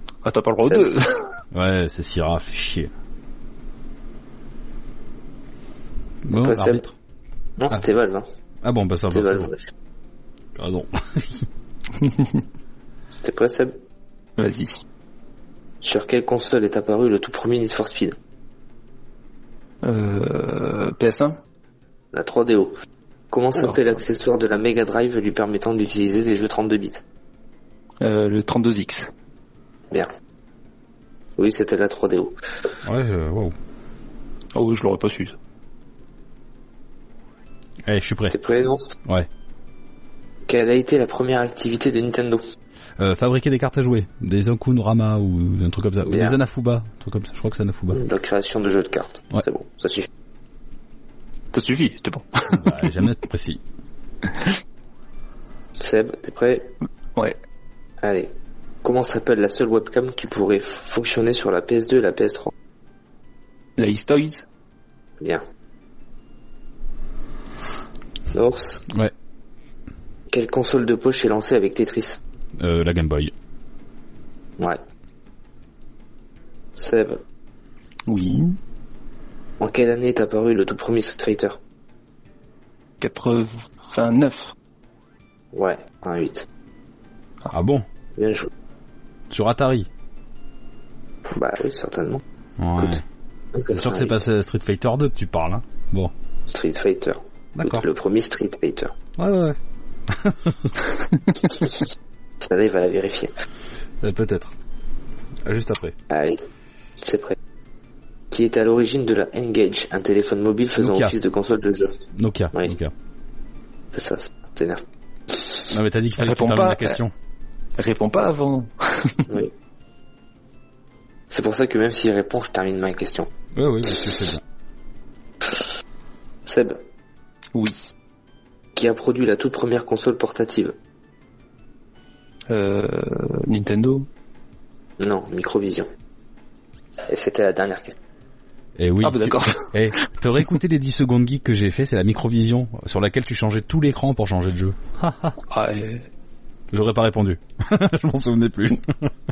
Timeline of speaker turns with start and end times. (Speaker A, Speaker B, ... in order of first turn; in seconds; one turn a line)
Speaker A: 0.2-1.3
Speaker B: 1.5-2.9
Speaker B: 6.2-6.9
Speaker C: 6.4-6.8
Speaker C: 7.6-8.3
Speaker B: 8.6-9.5
Speaker C: 9.1-9.7
Speaker B: 10.6-11.4
Speaker A: 12.0-12.4
Speaker C: 13.2-13.7
Speaker A: 14.4-14.8
Speaker C: 15.8-18.2
Speaker A: 19.8-21.4
Speaker C: 22.1-22.7
Speaker C: 23.3-27.0
Speaker A: 23.6-23.8
Speaker A: 28.0-29.1
Speaker C: 31.4-32.4
Speaker B: 32.8-33.5
Speaker A: 34.5-35.3
Speaker B: 37.9-38.4
Speaker C: 38.3-39.0
Speaker C: 40.5-42.4
Speaker B: 43.0-48.0
Speaker C: 46.1-46.4
Speaker C: 47.9-50.1
Speaker A: 51.5-52.9
Speaker B: 52.5-53.6
Speaker C: 55.8-56.7
Speaker C: 58.0-58.3
Speaker C: 58.8-62.5
Speaker A: 63.8-64.5
Speaker C: 68.3-68.8
Speaker C: 70.3-72.2
Speaker B: 72.6-73.3
Speaker C: 76.7-77.2
Speaker A: 78.1-78.6
Speaker C: 79.6-81.6
Speaker A: 83.0-84.5
Speaker C: 85.5-86.5
Speaker B: 87.5-87.9
Speaker C: 88.2-88.5
Speaker B: 89.3-89.9
Speaker C: 91.3-92.2
Speaker B: 92.6-93.0
Speaker C: 93.5-94.2
Speaker B: 93.7-96.1
Speaker C: 96.5-99.0
Speaker B: 97.5-97.9
Speaker B: 99.2-99.6
Speaker B: 100.1-100.8
Speaker C: 101.5-101.8
Speaker C: 102.4-103.3
Speaker B: 104.0-104.5
Speaker B: 105.5-106.0
Speaker C: 106.1-106.4
Speaker C: 107.0-107.4
Speaker C: 108.3-112.0
Speaker B: 110.8-111.1
Speaker B: 112.1-112.9
Speaker C: 113.9-115.5
Speaker B: 115.7-117.1
Speaker A: 116.2-117.0
Speaker A: 117.8-119.3
Speaker C: 121.3-123.3
Speaker B: 123.5-124.4
Speaker C: 126.5-126.8
Speaker C: 128.8-130.8
Speaker A: 132.5-134.1
Speaker C: 135.0-135.9
Speaker C: 137.1-138.0
Speaker B: 138.8-145.4
Speaker A: 139.0-140.1
Speaker A: 145.5-146.1
Speaker B: 146.7-149.1